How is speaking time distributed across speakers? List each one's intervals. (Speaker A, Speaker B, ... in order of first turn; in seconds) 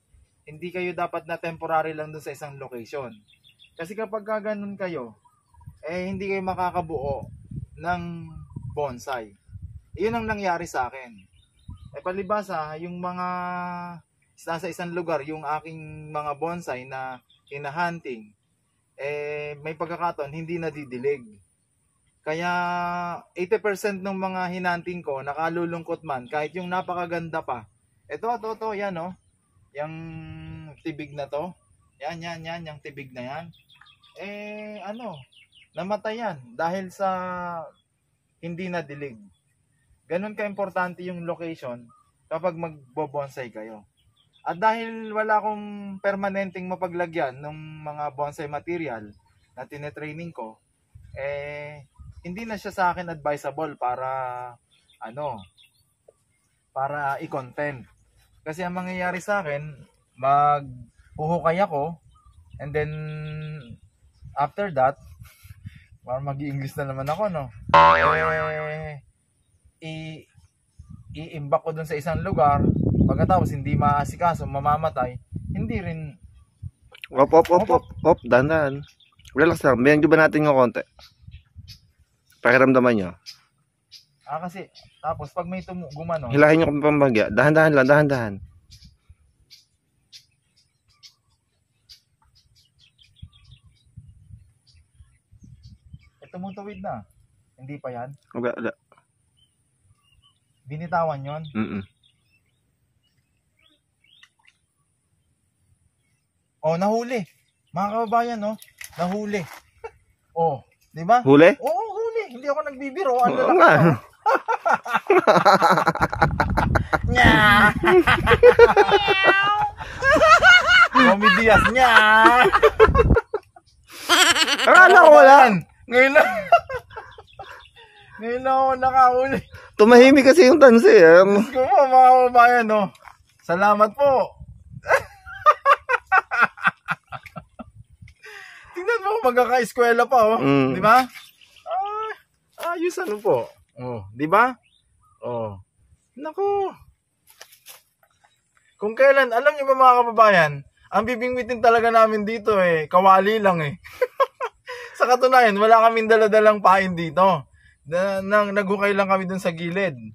Speaker A: 0.5-3.1, 3.8-5.1, 5.8-7.3, 7.8-9.3, 10.0-11.2, 11.9-18.3, 19.0-21.2, 22.2-29.1, 29.8-31.5, 32.0-33.5, 34.2-35.2, 35.8-37.6, 38.4-39.2, 40.1-43.8, 44.5-49.1, 49.6-50.5, 51.2-54.5, 55.0-55.4, 56.8-57.8, 58.4-61.9, 62.6-63.7, 64.4-65.0, 66.0-69.0, 69.8-70.2, 71.2-76.0, 77.2-77.8, 84.3-86.4, 96.2-97.0, 97.6-98.2, 100.7-101.5, 106.6-109.5, 110.3-116.0, 116.9-120.0, 120.9-123.2, 124.7-126.8, 128.2-130.1, 131.3-132.9, 133.4-134.3, 134.9-136.9, 138.7-141.1, 141.7-144.5, 145.2-145.6, 146.2-146.7, 148.8-157.3, 157.9-160.0
Speaker B: 77.1-78.8, 79.4-80.8, 82.4-83.1, 86.3-88.4, 98.3-98.7, 101.5-101.8, 111.2-111.6, 113.2-114.0, 115.1-116.2, 118.4-119.3, 124.6-125.5, 129.8-131.4, 140.4-140.9